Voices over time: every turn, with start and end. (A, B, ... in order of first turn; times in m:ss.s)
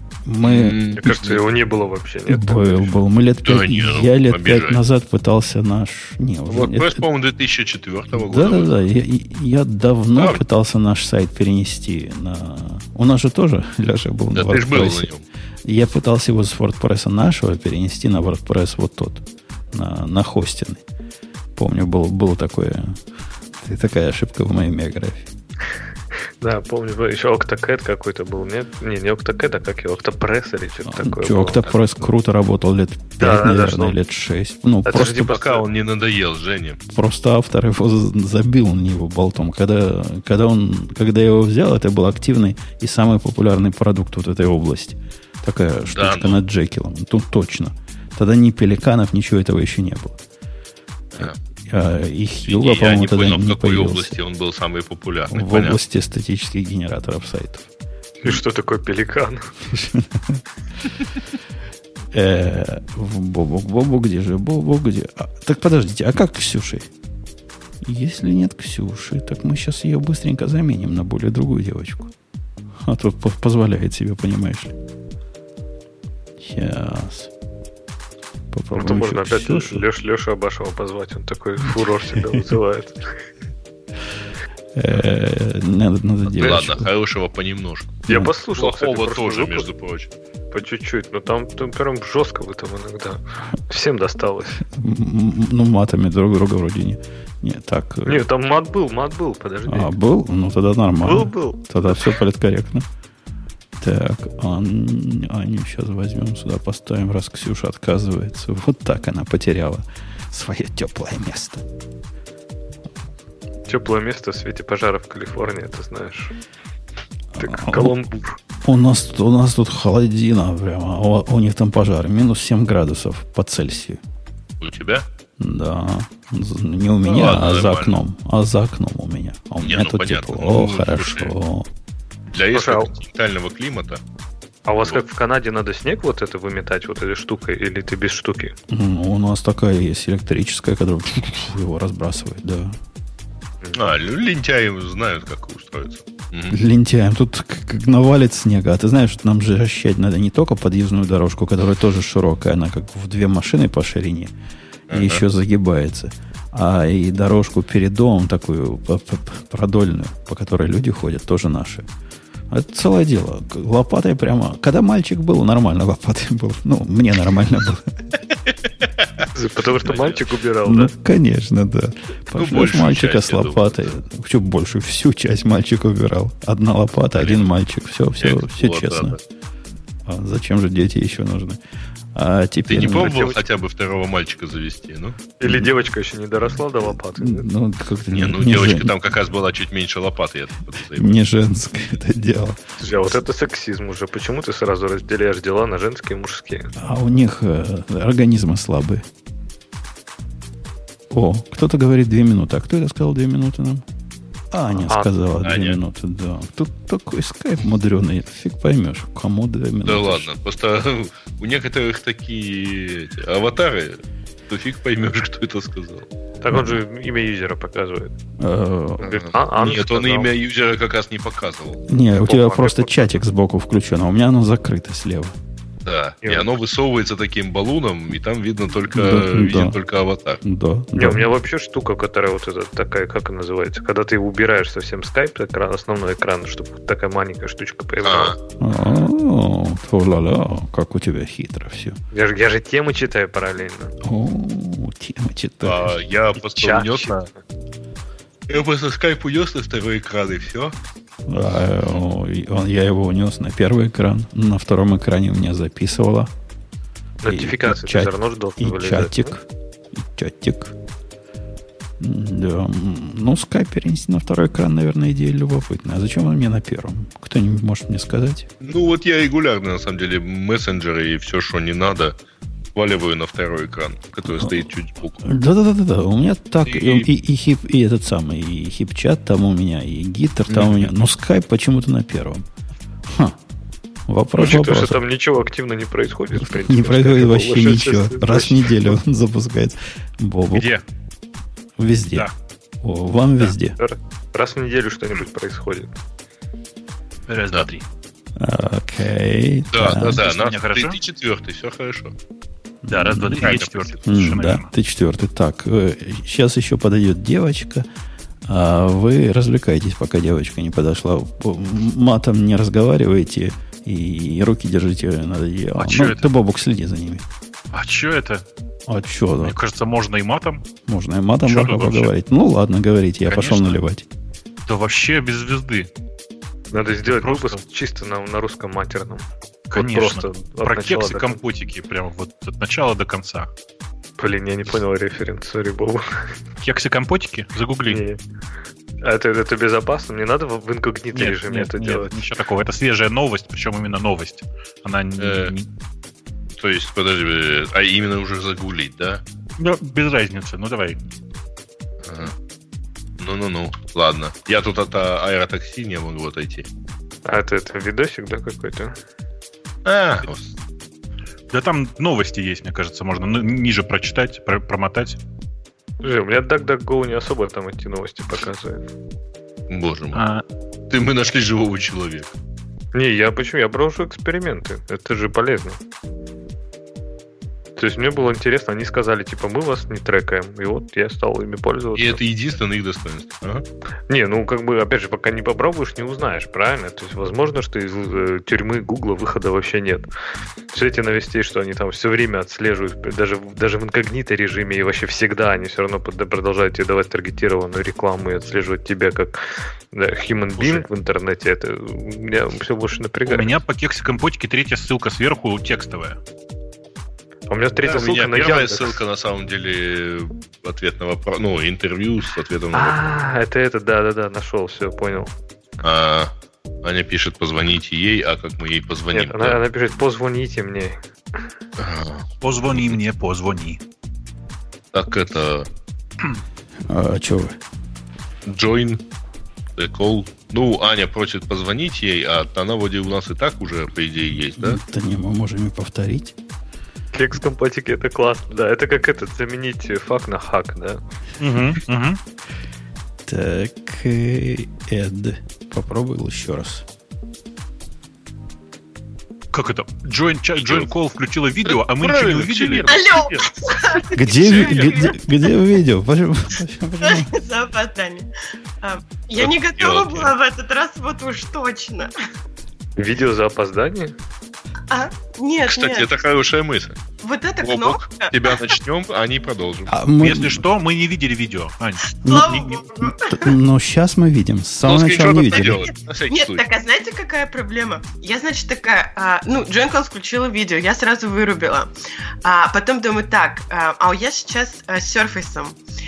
0:00.2-0:00.8 A
0:00.4-0:01.3 B
0:01.0-0:03.0 C
0:02.3-0:07.0 A
0:03.4-0:04.8 B
0:06.5-0:08.8 B
0:08.1-0:15.1 A
0:10.1-0:10.4 B
0:14.3-0:15.2 B
0:15.6-0:20.8 A
0:21.6-0:23.0 A
0:23.6-0:25.3 A
0:26.4-0:31.6 C
0:30.8-0:35.3 A
0:33.2-0:34.0 C
0:34.8-0:35.6 C
0:35.2-0:36.8 B
0:36.9-0:50.2 A
0:45.9-0:46.4 B
0:51.2-0:54.1 A
0:52.4-0:55.8 B
0:55.3-0:57.7 A
0:58.2-0:59.5 C
0:59.7-1:00.4 A
1:02.1-1:06.9 A
1:07.8-1:12.1 A
1:12.8-1:14.7 A
1:16.4-1:17.3 A
1:18.5-1:19.8 A
1:18.7-1:23.2 C
1:24.7-1:26.9 A
1:26.3-1:30.1 B
1:28.1-1:29.7 C
1:28.1-1:28.3 A
1:30.5-1:34.6 C
1:34.6-1:38.2 A
1:38.0-1:39.9 C
1:39.7-1:42.9 A
1:41.0-1:42.1 C
1:43.8-1:51.6 A
1:53.6-1:56.3 C
1:57.3-1:58.0 A
1:57.4-1:58.4 C
1:58.6-2:04.0 A
2:04.6-2:05.0 B
2:05.4-2:11.7 A
2:07.0-2:08.0 B
2:09.6-2:11.3 B
2:12.3-2:14.0 B
2:12.5-2:12.9 C
2:14.7-2:18.5 C
2:18.7-2:22.8 A
2:23.7-2:26.6 B
2:26.5-2:34.3 A
2:34.9-2:41.8 A
2:34.9-2:35.2 B
2:42.5-2:48.0 A
2:49.0-2:49.2 B
2:49.3-2:50.9 C
2:49.8-2:50.2 B
2:50.6-2:59.2 A
2:52.3-2:53.9 B
2:58.2-2:59.2 B
3:00.0-3:01.6 A
3:02.1-3:03.4 A
3:02.7-3:05.3 B
3:05.4-3:07.5 C
3:06.8-3:08.9 A
3:08.1-3:11.2 B
3:10.9-3:12.6 A
3:12.8-3:16.7 C
3:16.8-3:19.0 A
3:21.1-3:23.8 A
3:24.5-3:30.3 A
3:24.9-3:25.2 C
3:25.4-3:25.8 B
3:29.8-3:36.1 B
3:36.4-3:38.1 C
3:36.5-3:36.8 A
3:38.4-3:39.2 A
3:39.0-3:40.3 C
3:39.2-3:41.8 B
3:41.9-3:45.3 A
3:42.2-3:43.0 C
3:45.8-3:50.4 B
3:46.2-3:46.5 C
3:48.9-3:49.8 A
3:50.4-3:51.3 A
3:51.0-3:58.3 C
3:58.0-3:58.4 B
3:58.6-4:02.0 A
4:02.1-4:03.9 C
4:04.0-4:06.0 A
4:05.6-4:07.3 B
4:06.4-4:07.4 C
4:08.5-4:10.7 B
4:11.3-4:16.3 A
4:17.2-4:19.3 C
4:17.3-4:20.7 A
4:22.0-4:28.5 A
4:28.6-4:32.1 B
4:32.7-4:35.2 B
4:34.3-4:34.6 A
4:35.2-4:42.4 A
4:36.6-4:37.1 B
4:40.5-4:40.9 B
4:43.1-4:43.4 A
4:44.1-4:45.0 A
4:44.4-4:48.9 C
4:46.4-4:50.7 A
4:50.5-4:50.8 D
4:51.8-4:52.3 A
4:52.8-4:53.8 A
4:53.8-4:55.9 C
4:57.3-4:57.8 D
4:58.4-5:00.2 A
4:59.7-5:02.1 B
5:00.2-5:01.0 D
5:02.8-5:03.5 A
5:02.9-5:04.7 D
5:03.4-5:04.0 B
5:04.0-5:07.9 A
5:08.5-5:17.2 A
5:15.8-5:16.3 D
5:17.7-5:18.4 D
5:18.9-5:19.6 A
5:19.4-5:20.6 D
5:20.9-5:24.0 A
5:21.4-5:22.1 D
5:23.3-5:23.8 D
5:24.7-5:25.9 D
5:26.7-5:31.4 C
5:27.1-5:27.6 D
5:29.7-5:33.5 D
5:34.2-5:36.4 C
5:36.6-5:38.0 D
5:37.9-5:38.2 C
5:39.0-5:42.1 C
5:41.1-5:45.7 D
5:45.2-5:45.5 B
5:46.6-5:49.2 B
5:49.6-5:51.0 D
5:52.0-5:52.3 B
5:53.2-5:56.6 B
5:57.2-5:59.0 C
5:59.8-6:00.5 B
6:01.5-6:05.2 D
6:06.0-6:08.9 C
6:09.7-6:10.2 B
6:10.1-6:10.4 D
6:10.9-6:12.3 B
6:12.9-6:15.8 C
6:17.8-6:22.2 C
6:21.9-6:23.6 B
6:24.1-6:30.1 C
6:30.7-6:43.6 C
6:40.6-6:40.8 B
6:43.2-6:46.2 D
6:47.5-6:49.0 C
6:47.8-6:53.0 B
6:52.7-6:55.3 C
6:55.8-6:56.3 B
6:56.8-6:59.6 B
6:59.1-7:01.0 C
7:01.8-7:03.0 B
7:02.4-7:03.8 D
7:04.9-7:05.7 B
7:06.8-7:07.6 A
7:08.5-7:09.0 B
7:09.8-7:14.8 B
7:14.6-7:16.3 A
7:17.1-7:21.0 C
7:21.4-7:22.2 D
7:23.3-7:26.8 A
7:29.5-7:33.2 D
7:30.6-7:30.9 B
7:31.6-7:33.5 B
7:32.8-7:35.5 E
7:34.1-7:37.3 A
7:34.5-7:34.8 B
7:37.0-7:38.3 E
7:38.8-7:42.1 E
7:39.4-7:40.3 B
7:43.0-7:44.1 C
7:44.9-7:46.1 E
7:45.7-7:47.0 B
7:47.2-7:48.8 E
7:47.6-7:49.9 B
7:49.9-7:50.6 A
7:50.2-7:52.8 D
7:52.2-7:53.5 E
7:52.2-7:55.9 A
7:54.8-7:56.6 B
7:56.3-8:01.9 E
8:02.4-8:05.8 E